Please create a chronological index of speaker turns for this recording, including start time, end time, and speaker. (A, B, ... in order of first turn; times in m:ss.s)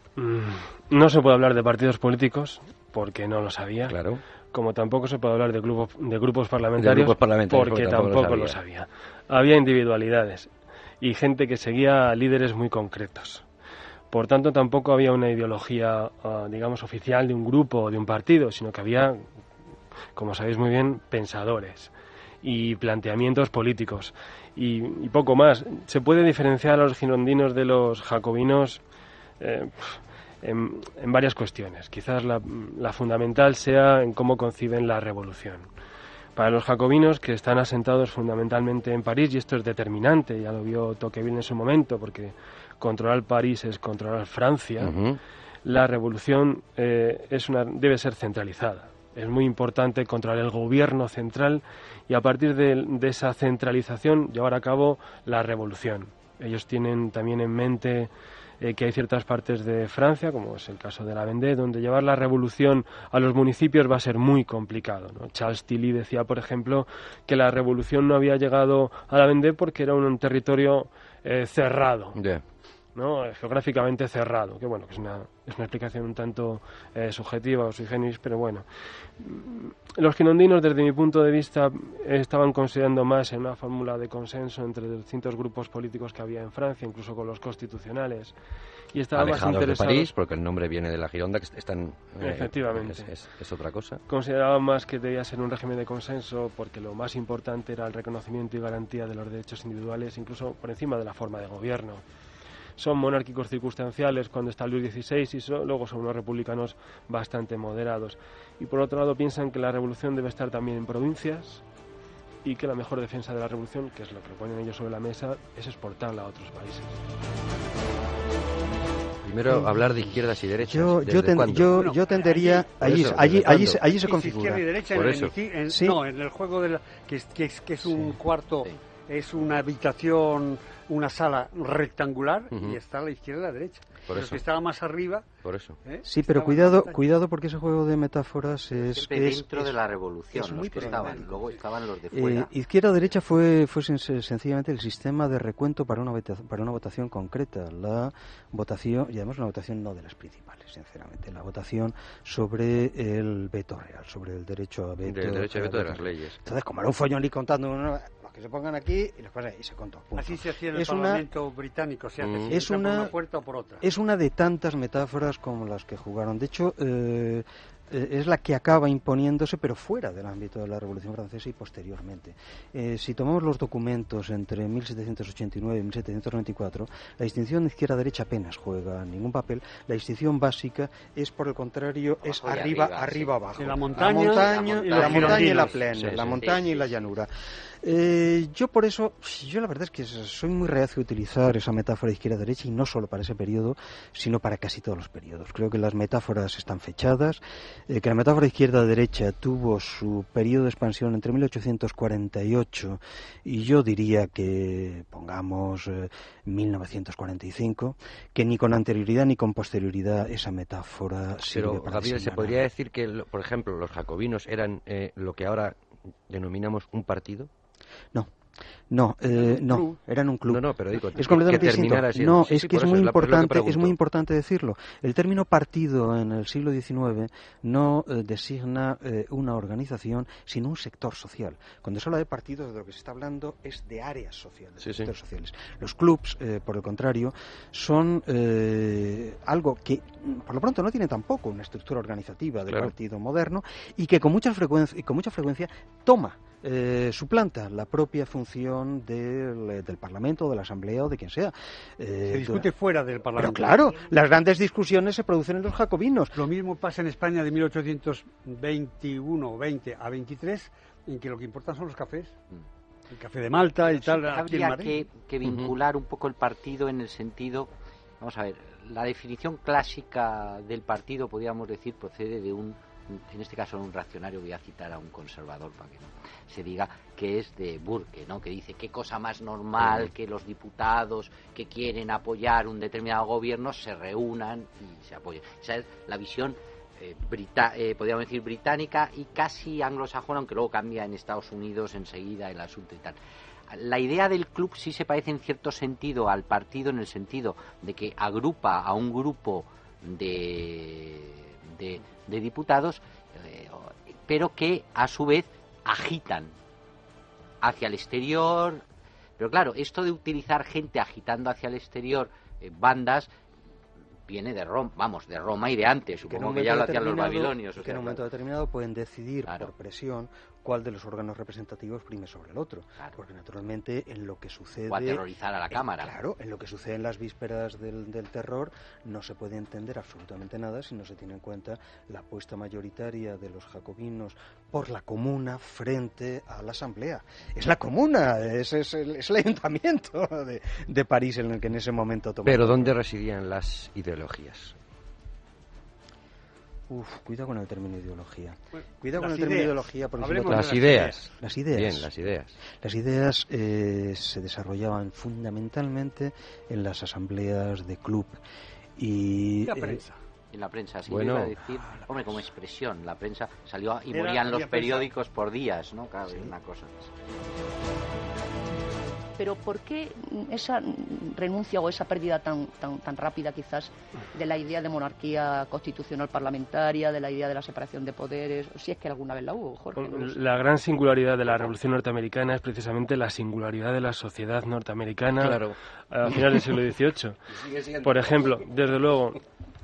0:00.2-0:04.0 A
0:03.9-0:04.2 B
0:04.5-0:13.4 A
0:06.8-0:08.6 B
0:14.1-0:19.2 A
0:20.1-0:28.8 A
0:29.4-0:35.7 A
0:36.4-0:44.9 A
0:44.8-0:45.2 B
0:45.6-1:12.2 A
1:12.2-1:12.4 B
1:12.9-1:18.6 A
1:19.2-1:28.3 A
1:28.9-1:30.1 A
1:29.1-1:34.0 B
1:32.2-1:33.1 A
1:34.1-1:42.0 A
1:42.8-1:51.6 A
1:52.4-1:57.0 A
1:59.2-2:01.7 B
1:59.5-1:59.9 C
2:00.6-2:04.6 C
2:01.6-2:02.7 D
2:02.8-2:03.8 B
2:03.6-2:17.0 D
2:04.9-2:05.3 B
2:05.7-2:06.0 C
2:12.5-2:12.8 B
2:14.1-2:14.4 B
2:15.4-2:15.8 B
2:16.0-2:19.8 C
2:18.8-2:22.5 E
2:20.3-2:21.6 C
2:22.1-2:41.2 C
2:35.0-2:36.4 B
2:40.2-2:43.8 D
2:42.2-2:42.5 B
2:42.5-2:43.1 C
2:43.8-3:32.6 C
3:02.2-3:07.1 E
3:03.6-3:05.8 D
3:05.9-3:06.4 B
3:31.5-3:37.5 B
3:38.9-4:12.7 C
3:39.5-3:39.8 D
3:40.5-3:43.9 B
3:54.8-3:55.1 B
4:12.3-4:13.8 D
4:13.4-4:16.4 C
4:16.3-4:22.3 D
4:23.1-4:25.0 D
4:23.8-4:27.7 E
4:28.2-4:53.2 E
4:53.7-5:06.5 E
5:07.6-5:08.8 E
5:09.4-5:13.3 E
5:14.2-5:18.2 E
5:16.2-5:42.9 C
5:19.4-5:19.7 E
5:24.9-5:26.1 E
5:42.4-5:44.7 B
5:46.9-5:52.1 C
5:48.8-5:51.3 D
5:50.4-5:51.2 B
5:51.7-5:52.6 B
5:52.6-5:58.4 C
5:59.0-6:00.0 C
5:59.6-6:00.2 D
6:00.5-6:07.1 E
6:01.1-6:01.5 B
6:04.1-6:05.1 D
6:09.4-6:20.3 F
6:20.0-6:27.4 A
6:25.4-6:25.8 B
6:26.3-6:26.7 B
6:27.5-6:28.6 B
6:28.0-6:29.4 A